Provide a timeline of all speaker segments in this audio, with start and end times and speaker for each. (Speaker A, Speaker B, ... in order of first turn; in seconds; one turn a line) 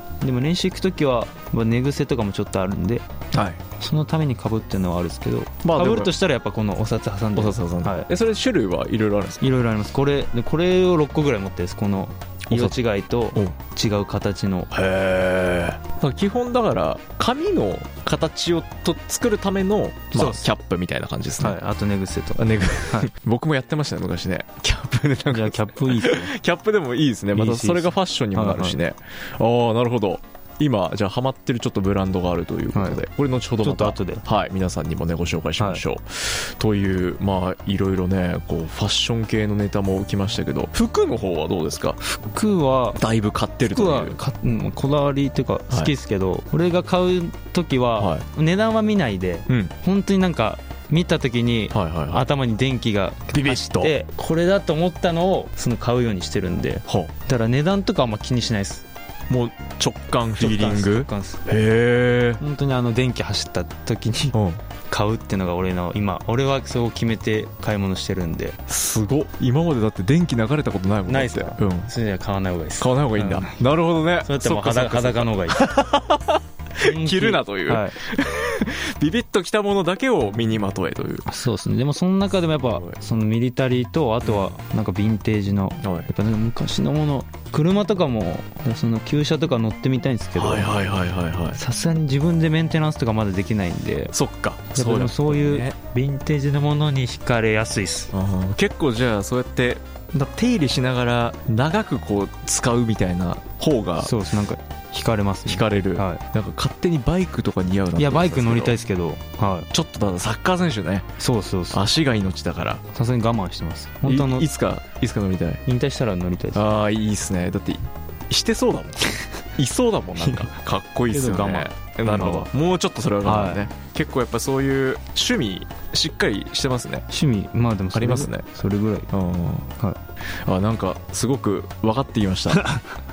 Speaker A: 0.2-3.1
Speaker B: 3.3-3.6
Speaker A: 3.8-8.1
Speaker B: 5.6-6.1
Speaker B: 7.3-9.4
Speaker A: 9.4-14.7
Speaker B: 12.5-12.8
Speaker B: 14.7-21.6
Speaker A: 20.1-20.5
Speaker A: 21.4-23.1
Speaker B: 22.4-42.0
Speaker A: 25.3-26.3
Speaker A: 27.3-28.8
Speaker A: 32.7-33.0
Speaker A: 33.6-34.2
Speaker A: 42.0-43.0
Speaker B: 43.0-44.2
Speaker A: 43.6-58.9
Speaker B: 48.0-48.3
Speaker B: 49.5-49.7
Speaker B: 51.7-52.2
Speaker B: 53.3-53.9
Speaker B: 59.3-62.4
Speaker A: 60.4-61.5
Speaker A: 62.4-64.3
Speaker B: 64.3-64.6
Speaker A: 64.9-68.6
Speaker B: 68.7-71.9
Speaker A: 71.1-73.6
Speaker B: 72.8-81.2
Speaker A: 74.2-75.7
Speaker A: 76.8-78.0
Speaker A: 81.3-90.8
Speaker B: 82.6-83.0
Speaker B: 84.2-84.5
Speaker B: 85.8-86.1
Speaker B: 90.3-91.6
Speaker A: 91.5-94.1
Speaker B: 94.1-95.8
Speaker A: 94.7-98.1
Speaker B: 98.1-104.1
Speaker A: 104.0-106.2
Speaker B: 105.5-108.8
Speaker A: 108.0-109.7
Speaker B: 109.7-111.1
Speaker A: 111.2-111.8
Speaker B: 111.7-112.8
Speaker A: 112.9-114.5
Speaker B: 114.0-115.6
Speaker A: 115.7-116.7
Speaker B: 116.5-119.0
Speaker B: 119.6-127.0
Speaker A: 120.2-120.5
Speaker A: 121.1-122.5
Speaker A: 123.2-123.7
Speaker A: 127.1-129.1
Speaker B: 127.9-128.5
Speaker B: 129.1-129.7
Speaker B: 130.4-132.6
Speaker A: 132.5-132.8